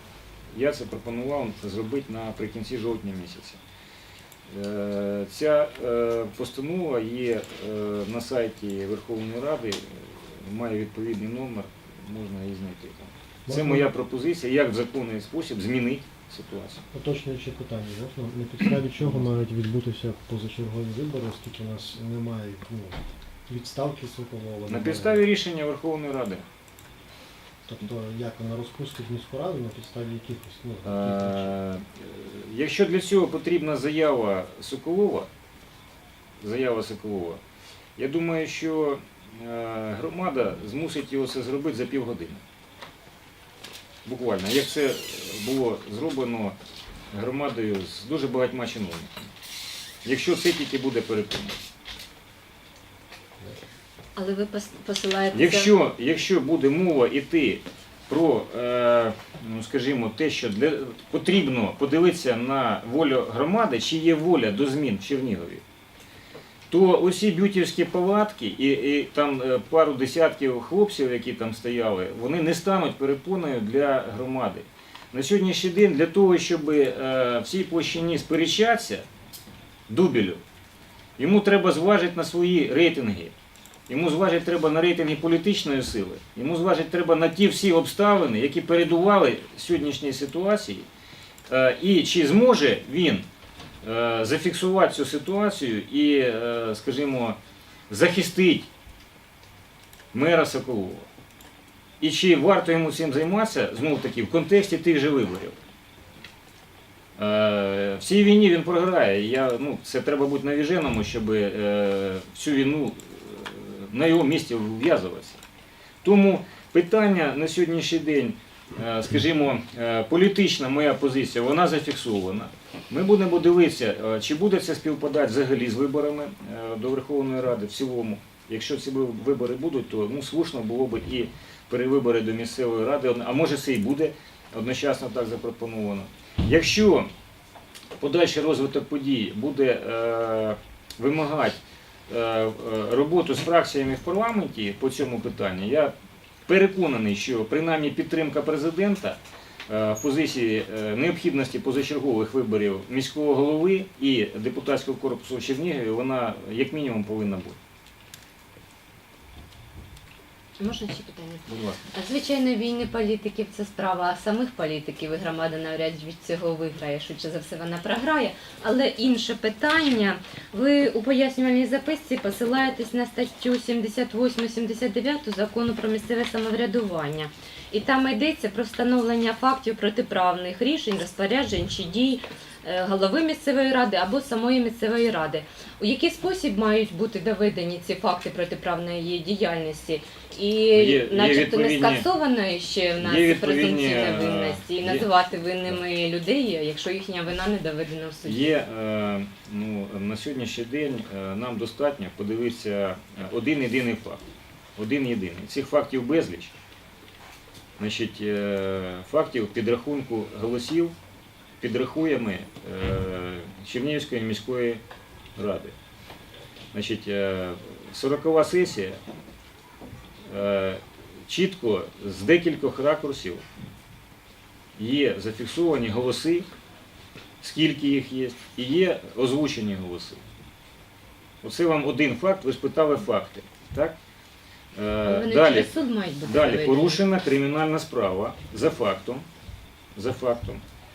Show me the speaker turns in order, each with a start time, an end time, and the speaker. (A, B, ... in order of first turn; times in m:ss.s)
0:00.5-0:03.6 A
0:04.5-0:16.8 A
0:13.5-0:13.9 B
0:16.9-0:25.2 B
0:24.7-0:26.4 A
0:27.6-0:31.5 B
0:30.8-0:35.3 A
0:36.4-0:37.4 A
0:38.0-0:42.4 A
0:44.0-0:46.6 A
0:47.1-0:49.3 A
0:50.0-0:51.6 A
0:54.2-0:55.7 C
0:55.3-1:05.6 A
1:06.7-1:19.1 A
1:19.9-1:20.4 A
1:21.2-1:23.3 A
1:23.9-1:30.9 A
1:31.5-1:33.2 A
1:33.8-1:37.4 A
1:37.9-1:38.7 A
1:40.1-1:41.1 A
1:42.0-1:45.6 A
1:47.2-1:55.4 A
1:56.0-2:17.1 A
2:18.0-2:25.9 A
2:26.5-2:37.6 A
2:40.6-3:18.6 C
2:41.5-2:41.9 A
3:10.7-3:12.1 A
3:13.0-3:15.1 A
3:18.2-3:24.2 A
3:24.8-3:26.5 A
3:27.8-3:30.9 A
3:31.6-3:34.8 A
3:35.4-3:35.8 A
3:36.7-3:39.0 A
3:40.3-3:43.4 A
3:44.8-3:46.5 A
3:47.4-3:50.2 A
3:51.4-3:53.9 A
3:54.8-3:59.2 A
3:55.1-3:57.0 C
4:00.0-4:00.6 A